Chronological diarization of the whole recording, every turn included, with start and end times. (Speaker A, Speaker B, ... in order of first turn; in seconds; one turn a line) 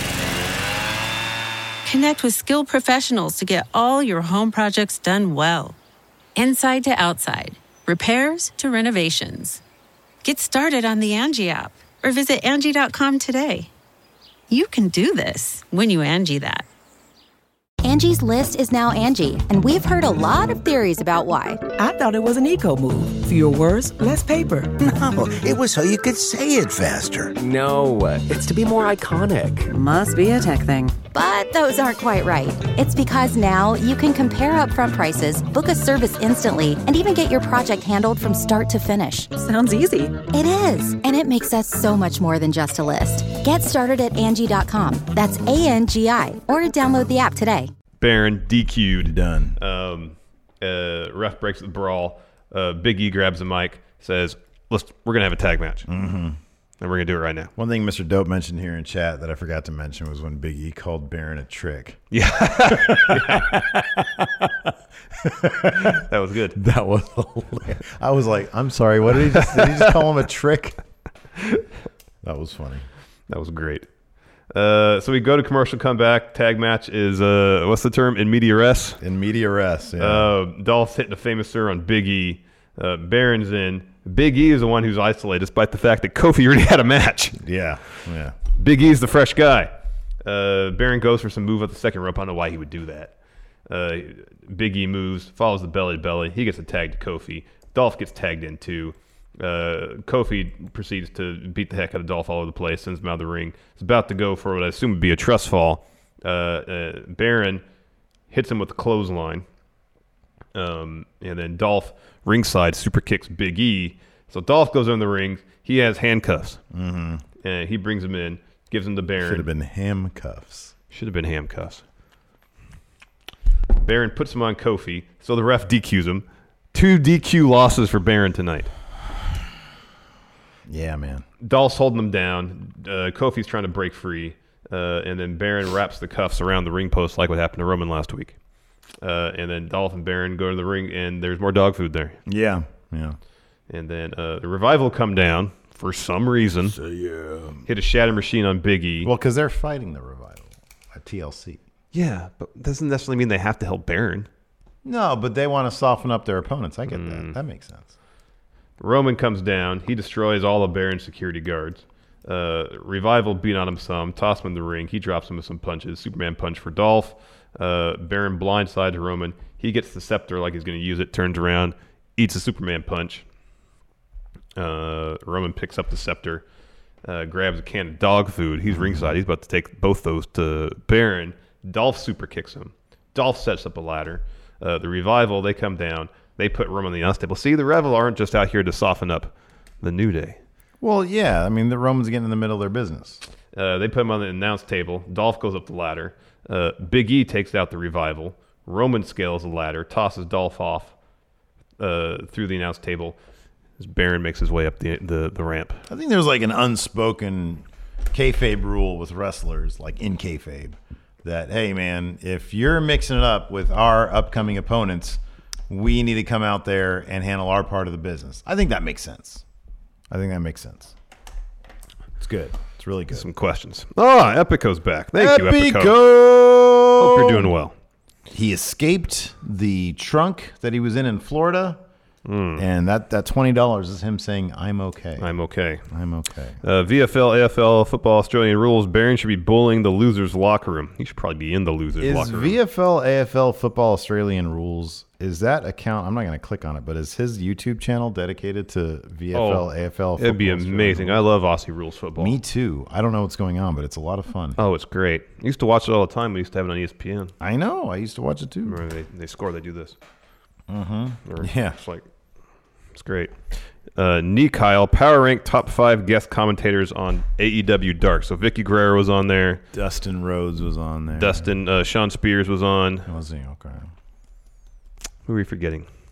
Speaker A: 1.8-5.8
Speaker A: 6.3-9.6
Speaker A: 10.2-13.7
Speaker A: 14.5-16.6
Speaker B: 17.8-21.6
Speaker C: 21.8-24.7
Speaker D: 24.8-27.3
Speaker E: 27.4-29.7
Speaker F: 29.7-30.9
Speaker B: 31.1-39.3
Speaker F: 39.4-40.1
Speaker B: 40.3-47.7
Speaker G: 48.0-55.9
Speaker H: 49.0-49.6
Speaker H: 55.9-56.4
Speaker G: 56.8-57.5
Speaker H: 57.6-62.0
Speaker G: 62.1-63.6
Speaker H: 62.6-66.0
Speaker G: 65.7-66.6
Speaker H: 66.5-70.8
Speaker G: 69.5-69.9
Speaker H: 72.2-72.8
Speaker G: 73.3-73.9
Speaker G: 74.5-79.0
Speaker H: 79.0-80.3
Speaker G: 80.0-87.4
Speaker H: 87.4-88.4
Speaker G: 88.6-89.7
Speaker G: 90.2-93.1
Speaker G: 93.7-107.6
Speaker G: 108.3-109.4
Speaker G: 110.5-116.6
Speaker H: 116.7-117.2
Speaker G: 117.4-119.5
Speaker H: 119.2-120.7
Speaker G: 120.9-121.8
Speaker G: 123.8-128.7
Speaker H: 130.7-131.2
Speaker G: 131.4-138.3
Speaker G: 139.0-142.2
Speaker H: 142.3-143.2
Speaker G: 143.7-146.8
Speaker H: 146.7-147.7
Speaker G: 147.7-149.1
Speaker H: 149.0-151.6
Speaker G: 151.9-154.3
Speaker H: 154.8-157.9
Speaker G: 156.9-157.3
Speaker G: 158.8-173.2
Speaker G: 174.6-176.4
Speaker G: 177.0-190.4
Speaker H: 178.7-179.2
Speaker H: 190.8-193.2
Speaker G: 193.5-200.9
Speaker G: 201.8-203.2
Speaker G: 203.8-205.8
Speaker H: 205.9-219.4
Speaker H: 220.1-220.9
Speaker H: 222.2-223.2
Speaker G: 223.1-226.0
Speaker H: 225.2-227.5
Speaker G: 226.9-227.8
Speaker H: 228.3-231.8
Speaker G: 232.2-232.6
Speaker H: 232.6-235.3
Speaker G: 235.2-235.8
Speaker H: 235.9-236.6
Speaker G: 236.6-242.6
Speaker H: 242.0-251.2
Speaker G: 249.3-252.4
Speaker H: 252.2-254.6
Speaker G: 254.6-257.3
Speaker H: 257.4-258.8
Speaker G: 258.6-259.9
Speaker H: 260.7-261.8
Speaker G: 261.2-262.0
Speaker G: 262.9-263.3
Speaker G: 263.9-269.6
Speaker H: 269.7-271.5
Speaker G: 271.1-273.1
Speaker H: 273.1-273.9
Speaker G: 275.2-275.9